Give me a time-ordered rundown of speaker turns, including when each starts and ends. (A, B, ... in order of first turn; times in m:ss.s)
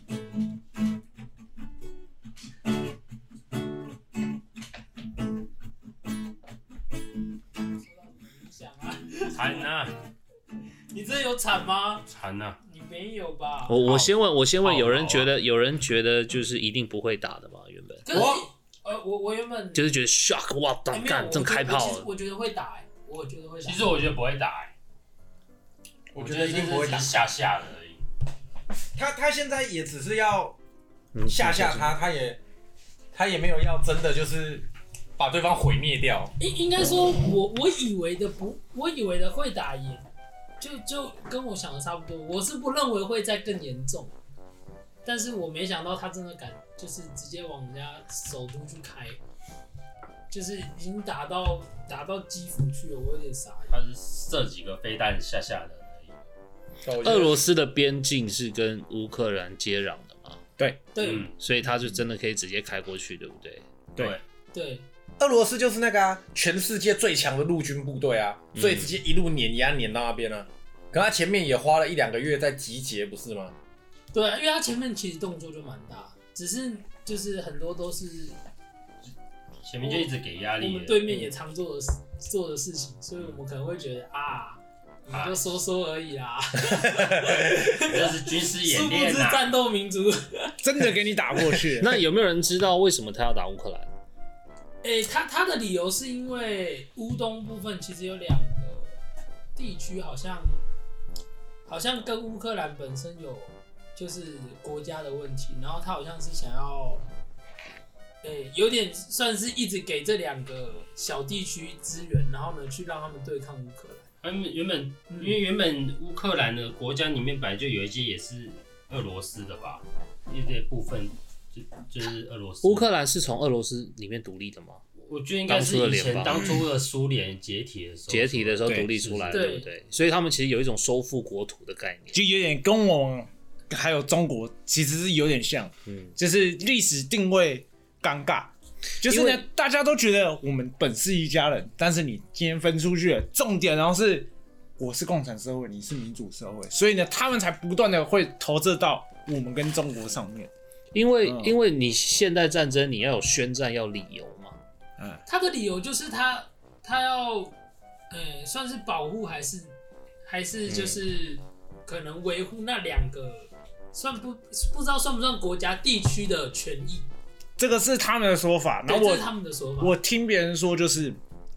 0:07.8-0:09.7 A
0:09.3-0:09.9 B
0:10.9-0:12.1 A
0:12.1-0:12.6 B
0:12.6-0:13.8 A
0:13.7-0:18.1 C
0:13.8-0:15.3 B
0:18.0-0:19.8 A
0:18.1-0:18.4 D
0:19.8-0:22.1 C
0:20.9-0:23.9 A
0:23.6-0:24.7 B
0:26.1-0:27.2 D
0:26.2-0:28.0 B
0:29.0-0:30.6 D
0:31.1-0:31.9 C
0:31.3-0:32.4 D
0:33.1-0:34.7 D
0:35.2-0:36.3 D
0:36.4-0:40.1 A
0:40.6-0:44.1 A
0:45.0-0:49.2 A
0:50.3-0:53.8 A
0:53.7-0:56.3 B
0:56.8-0:57.5 D
0:57.0-1:00.4 C
1:01.0-1:01.3 A
1:01.0-1:01.4 B
1:01.4-1:03.6 C
1:04.5-1:04.8 A
1:05.2-1:13.5 D
1:08.6-1:09.0 C
1:14.1-1:18.4 A
1:19.6-1:21.2 B
1:19.8-1:30.6 A
1:25.1-1:25.4 B
1:27.7-1:29.5 B
1:30.6-1:32.0 E
1:31.8-1:33.9 C
1:34.8-1:39.0 A
1:39.6-1:40.6 A
1:41.7-1:47.0 A
1:48.2-1:54.1 A
1:54.2-2:02.9 B
1:55.1-1:55.4 A
2:02.6-2:04.8 C
2:05.0-2:09.5 B
2:05.5-2:06.6 C
2:08.1-2:12.2 C
2:08.7-2:08.9 E
2:09.3-2:09.7 A
2:12.1-2:30.5 E
2:19.0-2:19.4 C
2:30.9-2:34.6 C
2:31.2-2:31.6 E
2:35.3-2:37.6 A
2:38.1-2:39.7 A
2:40.2-2:47.1 A
2:40.7-2:41.0 C
2:47.6-2:49.3 E
2:48.9-2:50.0 A
2:49.8-2:51.2 E